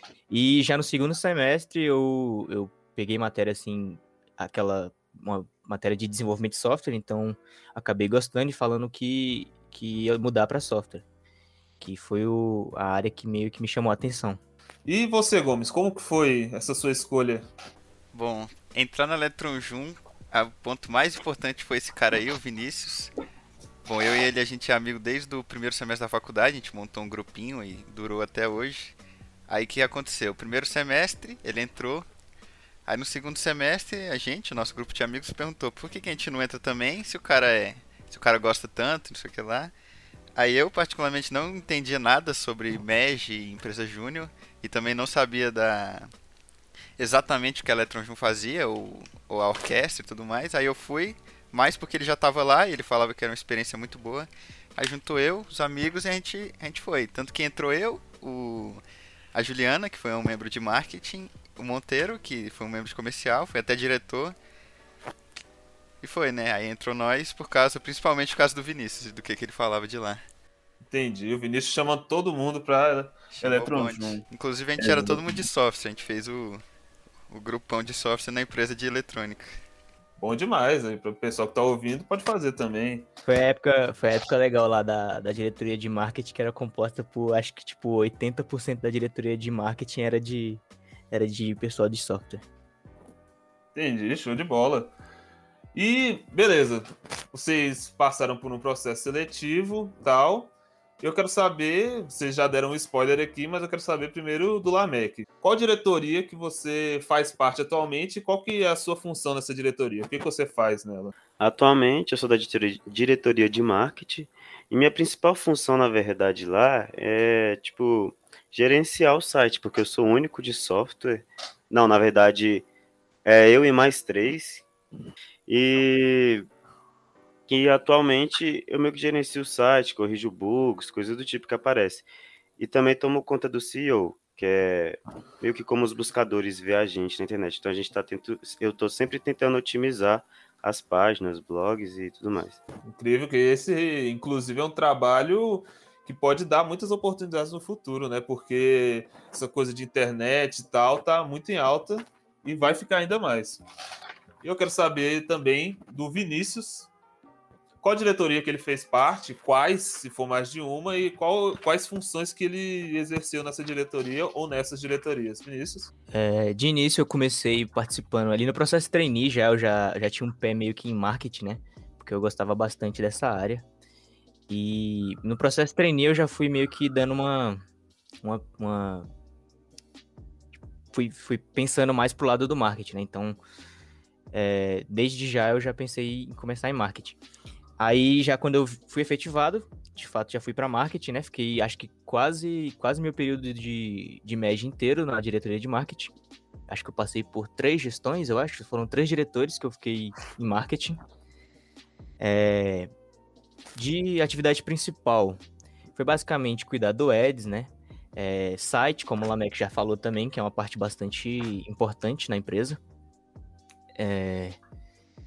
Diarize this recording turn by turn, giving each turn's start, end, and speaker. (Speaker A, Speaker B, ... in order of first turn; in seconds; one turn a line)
Speaker A: 0.3-11.0
Speaker A: 11.8-14.4
Speaker B: 14.8-17.5
Speaker C: 18.1-23.1
Speaker C: 23.9-29.0
Speaker C: 29.5-32.1
Speaker C: 32.9-39.7
Speaker C: 40.4-46.1
Speaker C: 47.0-58.8
Speaker C: 59.3-64.3
Speaker C: 66.0-70.2
Speaker B: 70.9-74.2
Speaker C: 73.3-76.6
Speaker B: 74.8-75.5
Speaker C: 77.3-79.6
Speaker B: 80.2-83.1
Speaker A: 83.3-92.4
Speaker B: 93.8-94.9
Speaker B: 95.7-111.1
Speaker D: 111.4-122.7
Speaker D: 123.3-124.7
Speaker D: 125.5-126.5
Speaker D: 127.5-132.1
Speaker D: 132.6-142.6
Speaker B: 142.8-153.6
Speaker B: 154.4-156.9
Speaker B: 157.8-165.9
Speaker A: 166.1-173.7
Speaker A: 174.5-177.6
Speaker A: 178.2-179.1
Speaker A: 180.9-183.4
Speaker A: 184.3-187.2
Speaker A: 187.8-196.1
Speaker A: 196.7-201.0
Speaker A: 202.2-202.9
Speaker A: 203.8-205.4
Speaker A: 205.9-212.8
Speaker A: 214.0-214.6